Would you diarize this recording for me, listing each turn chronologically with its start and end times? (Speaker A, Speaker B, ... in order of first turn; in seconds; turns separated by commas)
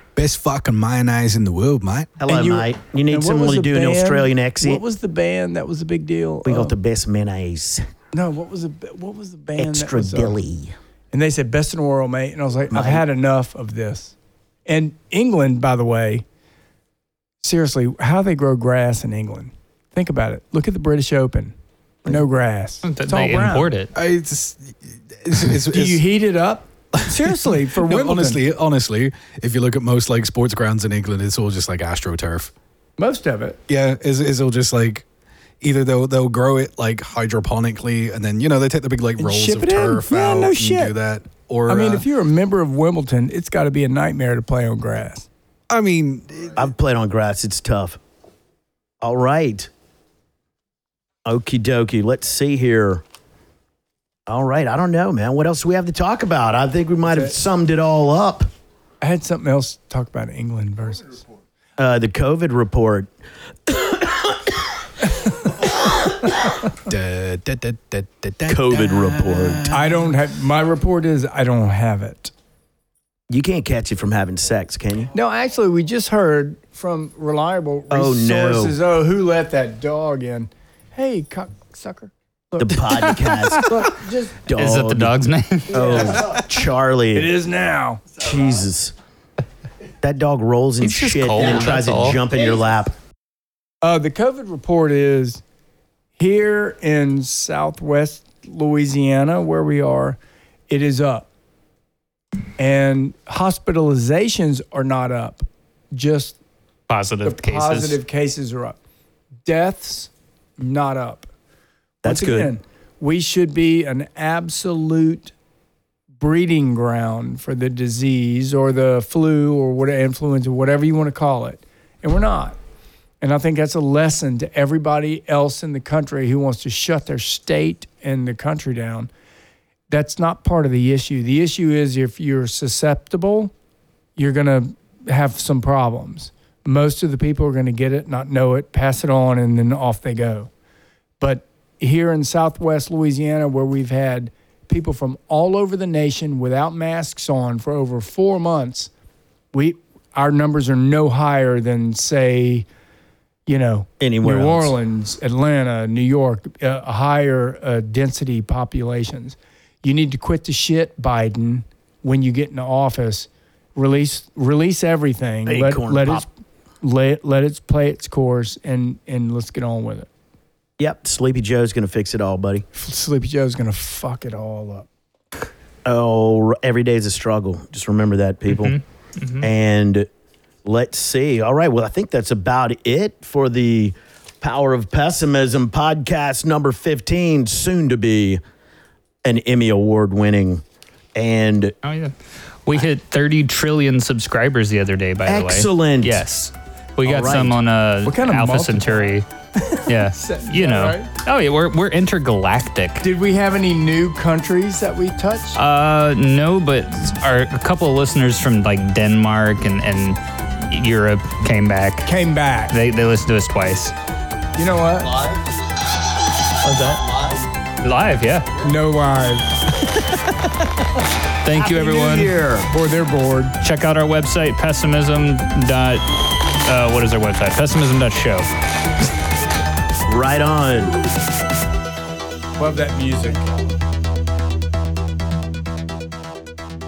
Speaker A: 0.2-2.1, Speaker B: 2.2-4.8, Speaker C: 2.3-6.7, Speaker B: 6.5-7.8, Speaker C: 8.1-10.4, Speaker B: 9.6-10.8, Speaker C: 11.1-14.2, Speaker B: 12.7-13.0, Speaker C: 14.7-16.2, Speaker C: 17.4-23.7, Speaker D: 22.8-23.9, Speaker A: 23.9-26.1, Speaker C: 25.3-28.4, Speaker A: 26.9-32.5, Speaker C: 33.0-33.6, Speaker A: 33.7-35.0, Speaker A: 35.6-42.0, Speaker C: 39.2-41.0, Speaker C: 41.7-45.3, Speaker A: 45.7-46.5, Speaker B: 46.6-48.0, Speaker B: 49.0-49.7, Speaker B: 51.2-53.0, Speaker B: 54.3-58.5, Speaker C: 57.1-57.4, Speaker C: 59.0-61.2, Speaker B: 61.8-63.1, Speaker B: 63.7-64.5, Speaker A: 66.8-69.8, Speaker B: 68.5-69.7, Speaker C: 69.7-72.3, Speaker B: 73.3-75.1, Speaker C: 75.1-82.9, Speaker B: 77.9-78.8, Speaker B: 82.6-83.7, Speaker C: 83.6-84.4, Speaker B: 84.4-85.2, Speaker D: 84.5-86.0, Speaker B: 85.7-87.3, Speaker C: 85.7-86.2, Speaker C: 87.1-88.0, Speaker B: 88.2-88.9, Speaker B: 90.0-92.9, Speaker D: 90.8-92.2, Speaker C: 93.8-95.4, Speaker C: 96.2-100.2, Speaker C: 100.7-101.3, Speaker C: 102.6-106.4, Speaker D: 106.9-108.0, Speaker C: 107.2-108.8, Speaker C: 109.5-111.3, Speaker B: 112.0-112.5, Speaker C: 112.0-115.3, Speaker C: 116.2-122.6, Speaker C: 123.2-129.1, Speaker C: 129.9-133.5, Speaker C: 134.2-140.5, Speaker C: 141.2-148.9, Speaker C: 149.5-152.7, Speaker C: 153.5-166.3, Speaker B: 154.0-154.7, Speaker B: 165.5-166.3, Speaker C: 166.8-170.1, Speaker B: 170.8-172.7, Speaker C: 172.8-174.9, Speaker B: 175.8-178.8, Speaker D: 178.5-179.5, Speaker B: 179.4-180.1, Speaker B: 180.7-188.4, Speaker B: 189.2-190.6, Speaker B: 191.2-191.7, Speaker D: 191.8-192.1, Speaker D: 192.7-199.3, Speaker B: 195.3-196.2, Speaker B: 197.1-197.6, Speaker C: 198.1-201.1, Speaker D: 199.9-203.1, Speaker C: 203.0-205.6, Speaker D: 205.6-212.1, Speaker C: 212.1-212.7, Speaker D: 212.7-213.9, Speaker C: 214.6-215.2, Speaker B: 216.6-217.1, Speaker D: 217.8-218.5, Speaker C: 218.6-219.5, Speaker D: 221.4-222.3, Speaker B: 221.5-222.7, Speaker C: 222.7-223.6, Speaker D: 223.6-226.1, Speaker D: 226.6-228.5, Speaker B: 230.1-231.0, Speaker C: 232.6-233.5